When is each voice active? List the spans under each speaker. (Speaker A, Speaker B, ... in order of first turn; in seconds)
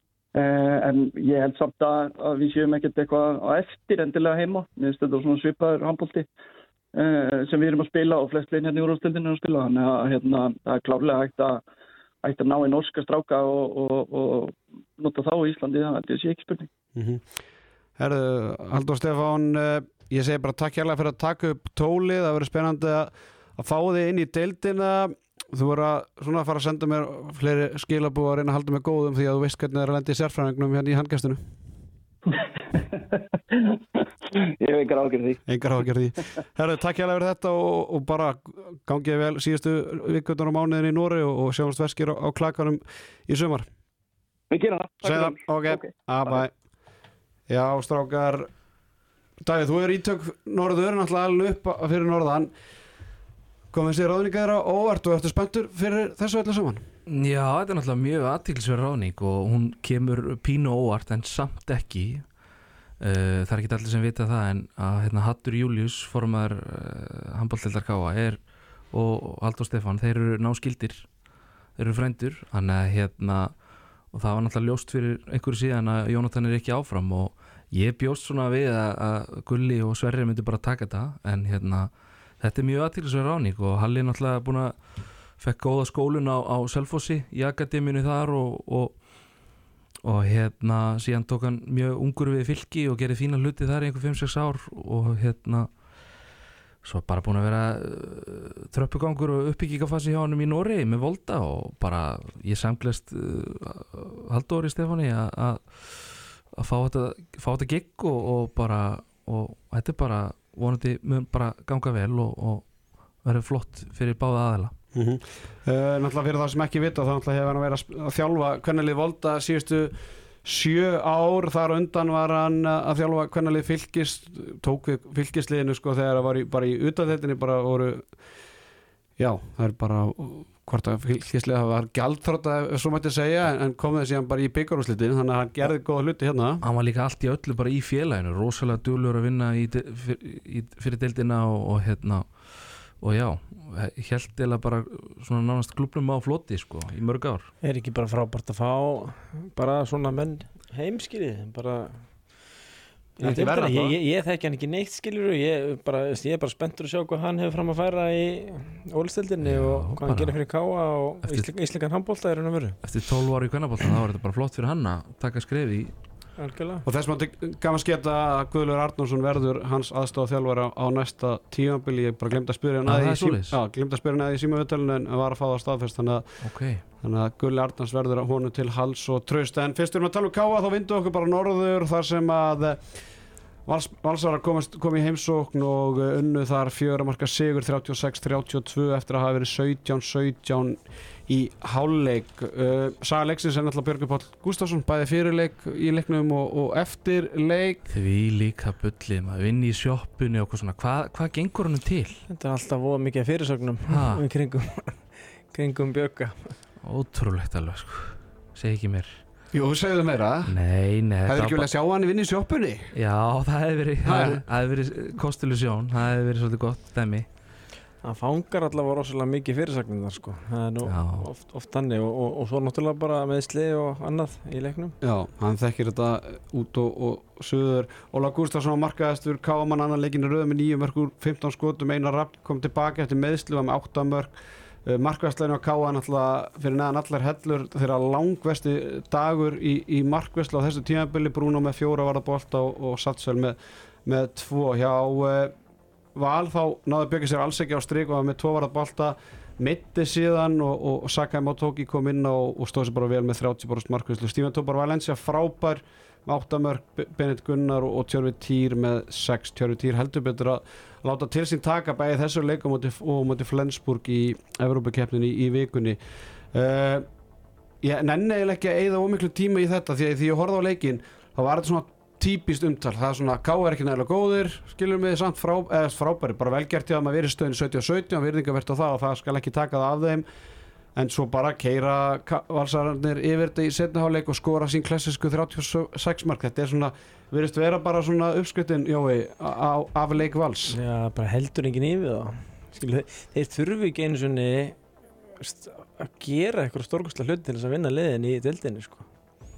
Speaker A: 0.3-6.3, 6.9-11.6, 12.2-16.7, 33.5-33.8, 34.3-35.5, 44.5-46.4
Speaker B: 16.9-17.3, 18.0-31.4, 35.5-43.7, 45.0-46.5, 47.5-48.5, 49.4-52.5, 53.7-56.9, 114.9-128.1, 129.2-136.6, 153.2-153.9, 166.8-176.3, 177.0-183.0, 183.7-197.8, 209.5-210.6, 211.3-212.9, 214.1-214.4, 225.0-234.3, 234.8-245.5, 246.2-266.0, 266.5-267.1, 267.8-280.2, 280.9-290.8
Speaker C: 57.1-62.3, 63.0-71.1, 71.8-73.6, 74.1-84.8, 85.4-89.0, 90.0-95.7, 96.8-112.7, 113.2-114.7, 136.6-147.5, 159.4-160.4, 161.2-161.5, 162.8-165.9, 172.9-173.6, 176.4-176.8, 197.9-202.2, 203.9-204.2, 206.8-209.2, 210.5-211.7, 212.9-217.3, 220.9-221.3
Speaker D: 147.6-152.1, 153.2-162.8, 166.4-166.8, 202.3-206.6, 218.0-224.9, 290.7-294.8, 295.4-299.1